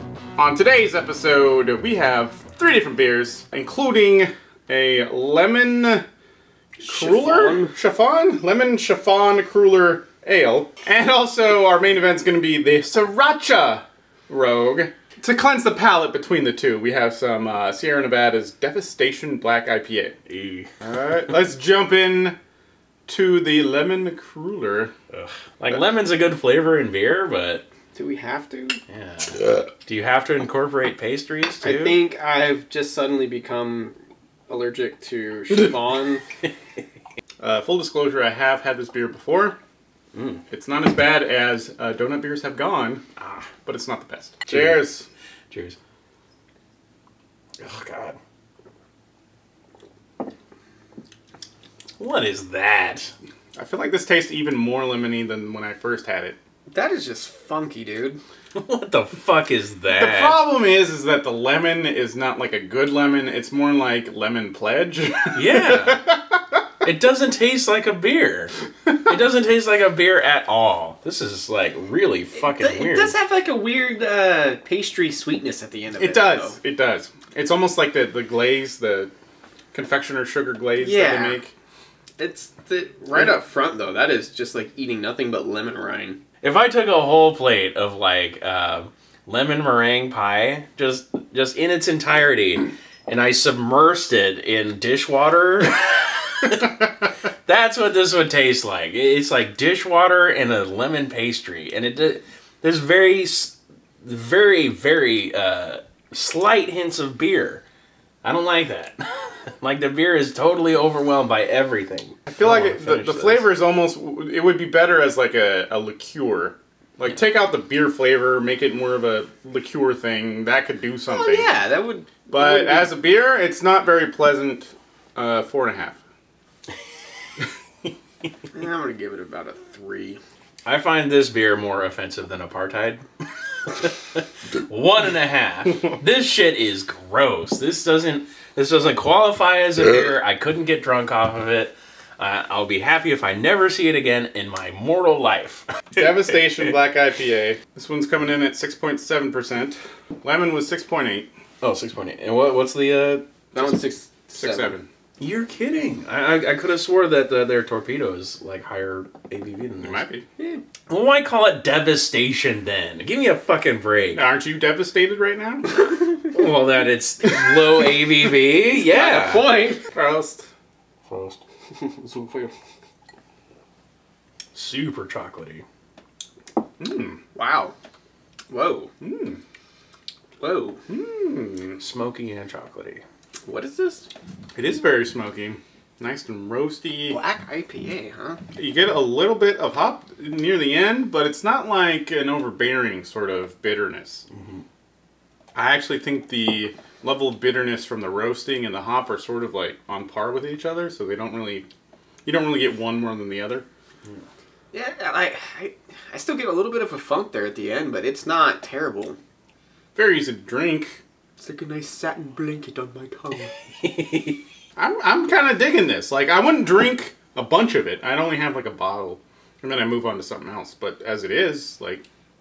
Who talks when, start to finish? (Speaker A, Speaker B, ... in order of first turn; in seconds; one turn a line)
Speaker A: 0.4-6.0
Speaker B: 6.8-7.7
Speaker A: 6.8-20.1
Speaker C: 20.3-20.7
Speaker A: 20.8-22.4
Speaker A: 23.1-24.9
Speaker C: 25.1-27.6
Speaker B: 27.9-28.8
Speaker C: 28.9-32.0
Speaker B: 31.6-34.0
Speaker B: 34.5-36.2
Speaker A: 37.4-39.6
Speaker C: 40.1-40.4
Speaker A: 40.5-43.0
Speaker C: 43.2-43.5
Speaker A: 43.6-45.1
Speaker C: 44.5-44.8
Speaker C: 45.5-45.8
Speaker C: 47.6-48.2
Speaker C: 52.0-53.1
Speaker A: 53.5-56.4
Speaker B: 56.7-58.2
Speaker C: 58.5-60.4
Speaker A: 59.9-66.4
Speaker C: 65.3-66.1
Speaker C: 66.8-73.1
Speaker B: 72.3-76.6
Speaker A: 76.0-79.1
Speaker A: 79.7-81.5
Speaker B: 80.8-81.4
Speaker B: 82.2-86.2
Speaker A: 83.1-83.4
Speaker C: 86.4-96.8
Speaker C: 97.4-107.6
Speaker C: 108.2-113.5
Speaker A: 112.3-121.5
Speaker B: 121.1-122.9
Speaker A: 122.3-126.0
Speaker B: 128.5-130.2
Speaker C: 130.6-133.0
Speaker C: 133.7-146.0
Speaker A: 145.9-151.3
Speaker C: 151.6-153.2
Speaker B: 153.5-154.7
Speaker A: 154.3-154.9
Speaker C: 155.2-160.0
Speaker A: 159.8-160.2
Speaker C: 160.9-164.3
Speaker A: 164.1-165.7
Speaker B: 165.8-166.2
Speaker C: 166.3-169.5
Speaker B: 168.8-169.8
Speaker A: 169.9-170.5
Speaker C: 171.1-171.4
Speaker B: 171.7-172.5
Speaker C: 174.5-175.6
Speaker A: 176.8-177.2
Speaker B: 177.3-177.7
Speaker B: 178.5-178.9
Speaker A: 179.0-179.4
Speaker B: 180.4-180.8
Speaker A: 180.9-181.8
Speaker C: 181.8-183.0
Speaker B: 183.4-184.1
Speaker A: 184.5-187.2
Speaker B: 187.1-188.4
Speaker A: 188.5-194.2
Speaker C: 194.3-194.6
Speaker A: 195.5-201.7
Speaker A: 202.2-203.6
Speaker B: 204.7-209.2
Speaker A: 209.9-211.0
Speaker B: 211.4-213.5
Speaker C: 213.8-214.4
Speaker A: 214.8-222.0